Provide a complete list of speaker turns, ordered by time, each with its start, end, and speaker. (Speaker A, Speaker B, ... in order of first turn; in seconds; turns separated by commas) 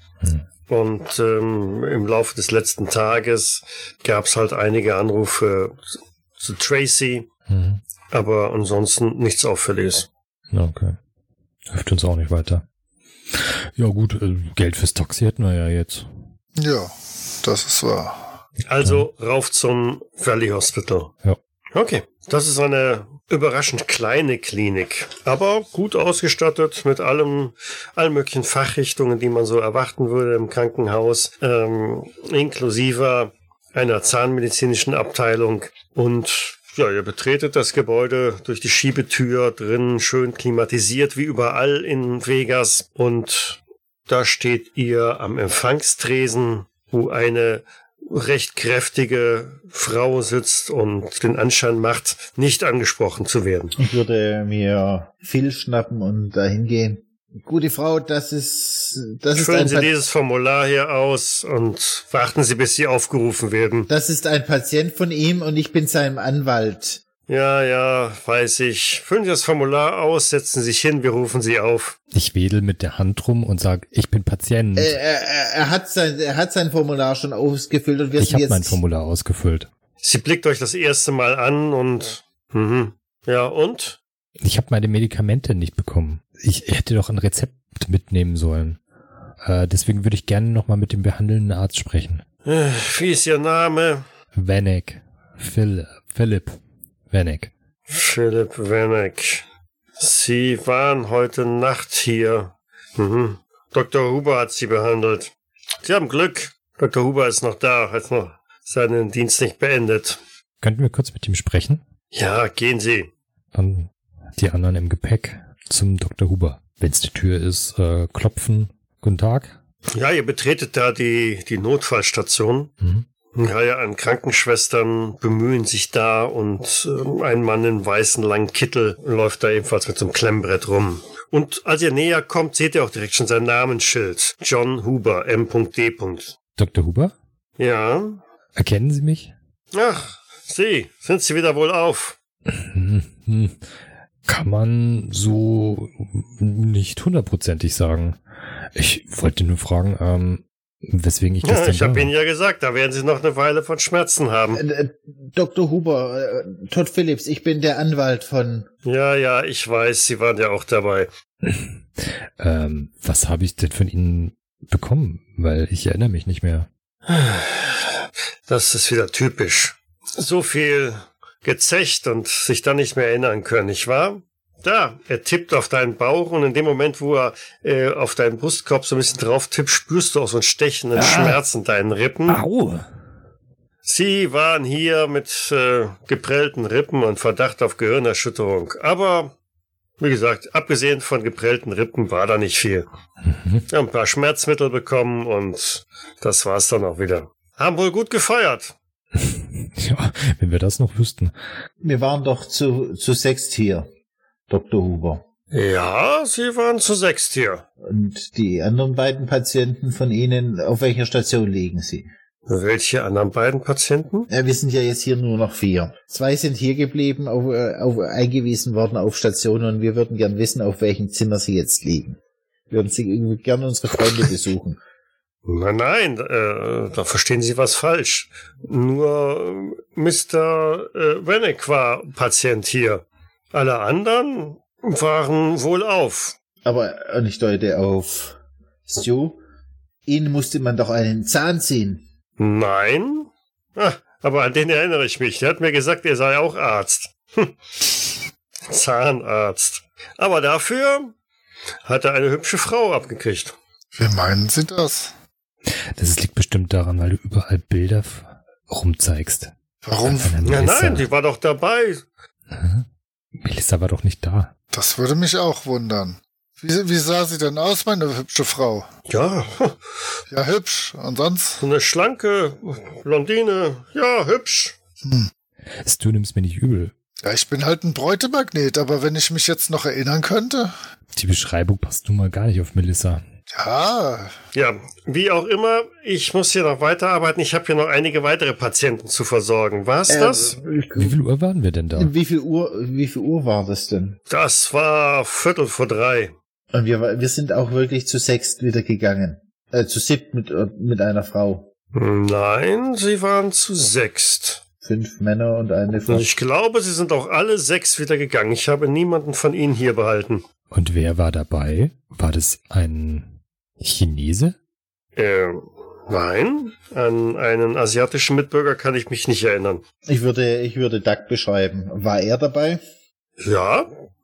Speaker A: 0.7-7.3, Speaker B: 7.5-7.8, Speaker A: 8.1-10.1, Speaker B: 10.5-11.0, Speaker B: 11.7-12.6, Speaker B: 13.3-16.1, Speaker C: 16.6-18.4, Speaker A: 18.7-21.1, Speaker B: 18.8-19.1, Speaker A: 21.7-53.8, Speaker D: 53.8-59.9, Speaker A: 59.3-63.9, Speaker D: 63.9-67.0, Speaker A: 67.3-72.0, Speaker B: 72.1-75.0, Speaker D: 74.8-78.8, Speaker B: 78.2-79.7, Speaker A: 80.0-84.0, Speaker B: 84.4-88.8, Speaker B: 89.4-92.2, Speaker A: 92.5-94.1, Speaker B: 94.3-96.6, Speaker B: 97.1-97.5, Speaker A: 97.9-99.5, Speaker A: 100.0-110.2, Speaker B: 110.6-111.8, Speaker A: 112.1-113.1, Speaker B: 113.5-119.6, Speaker A: 119.9-122.7, Speaker B: 122.8-123.1, Speaker A: 123.3-136.3, Speaker B: 136.6-137.1, Speaker A: 137.6-138.2, Speaker B: 138.6-139.3, Speaker A: 139.7-142.2, Speaker B: 142.5-143.6, Speaker B: 144.3-148.2, Speaker B: 148.7-152.1, Speaker A: 151.4-154.6, Speaker D: 154.6-158.7, Speaker A: 158.8-161.1, Speaker B: 161.4-166.7, Speaker A: 167.1-182.4, Speaker B: 180.9-181.4, Speaker B: 182.3-182.9, Speaker A: 183.8-189.3, Speaker A: 190.0-192.9, Speaker B: 193.2-193.7, Speaker A: 193.7-198.7, Speaker B: 199.2-201.3, Speaker D: 201.8-203.9, Speaker D: 204.5-205.2, Speaker A: 205.5-207.6, Speaker D: 207.8-212.1, Speaker A: 212.5-214.3, Speaker D: 214.3-222.2, Speaker D: 222.7-224.8, Speaker A: 225.4-236.3, Speaker D: 236.7-238.4, Speaker D: 238.9-239.4, Speaker D: 240.1-242.0, Speaker A: 242.4-247.9, Speaker A: 248.7-251.1, Speaker A: 251.8-253.6, Speaker C: 253.9-255.1, Speaker B: 256.0-259.5, Speaker C: 259.9-260.4, Speaker B: 260.0-261.1, Speaker A: 260.4-262.0, Speaker B: 262.5-262.9, Speaker B: 263.4-264.5, Speaker C: 264.7-268.9, Speaker A: 269.1-269.8, Speaker C: 270.3-271.6, Speaker A: 271.6-274.8, Speaker C: 275.1-275.3, Speaker B: 275.8-276.9, Speaker C: 277.2-280.7, Speaker B: 281.1-283.2, Speaker C: 283.5-284.3, Speaker A: 284.5-290.6, Speaker D: 290.1-291.1, Speaker B: 290.9-292.1, Speaker D: 291.9-294.2, Speaker A: 294.3-296.3, Speaker D: 296.7-301.7, Speaker A: 301.9-304.6, Speaker D: 304.8-306.2, Speaker A: 306.1-310.4, Speaker B: 310.7-314.6, Speaker A: 315.2-319.8, Speaker D: 320.1-322.8, Speaker A: 323.4-323.9